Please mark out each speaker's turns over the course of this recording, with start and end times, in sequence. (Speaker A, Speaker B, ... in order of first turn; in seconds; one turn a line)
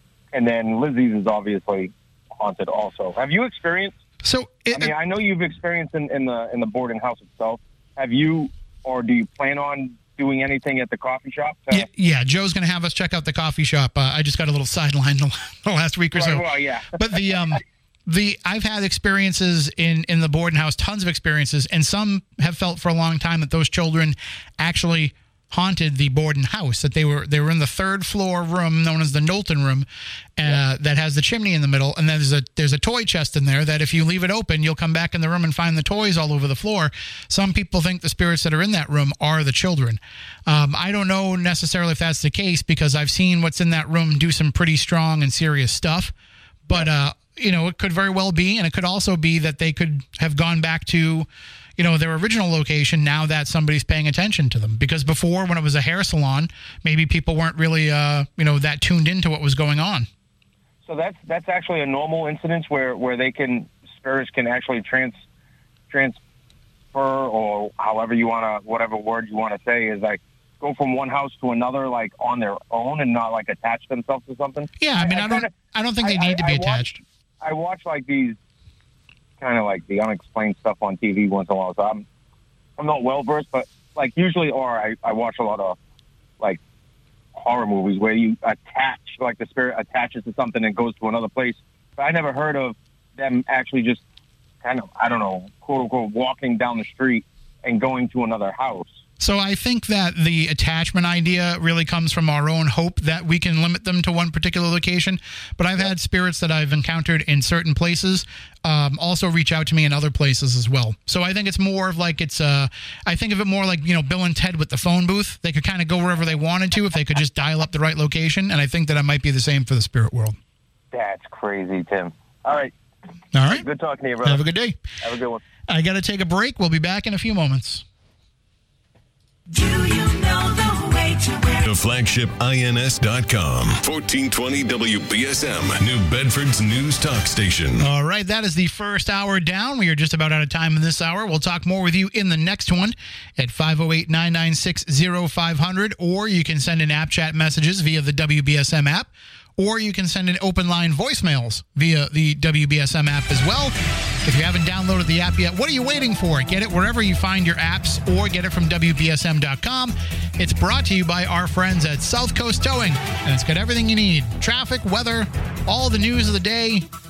Speaker A: 0.3-4.0
Speaker B: 4.2-4.9
Speaker A: 4.7-11.9
Speaker B: 11.7-16.4
Speaker A: 16.1-17.6
Speaker B: 16.9-29.9
Speaker B: 30.4-46.1
Speaker B: 46.7-60.1
Speaker A: 60.9-65.2
Speaker A: 65.9-66.2
Speaker A: 66.9-76.8
Speaker B: 74.8-77.0
Speaker A: 77.4-78.4
Speaker A: 79.4-82.0
Speaker A: 82.8-85.8
Speaker A: 87.3-94.0
Speaker A: 94.6-99.0
Speaker B: 99.2-120.4
Speaker A: 120.9-122.7
Speaker B: 123.3-123.7
Speaker A: 123.5-124.4
Speaker B: 124.2-124.8
Speaker A: 125.0-125.4
Speaker B: 125.7-127.8
Speaker C: 129.5-131.7
Speaker D: 131.7-137.8
Speaker B: 137.8-166.9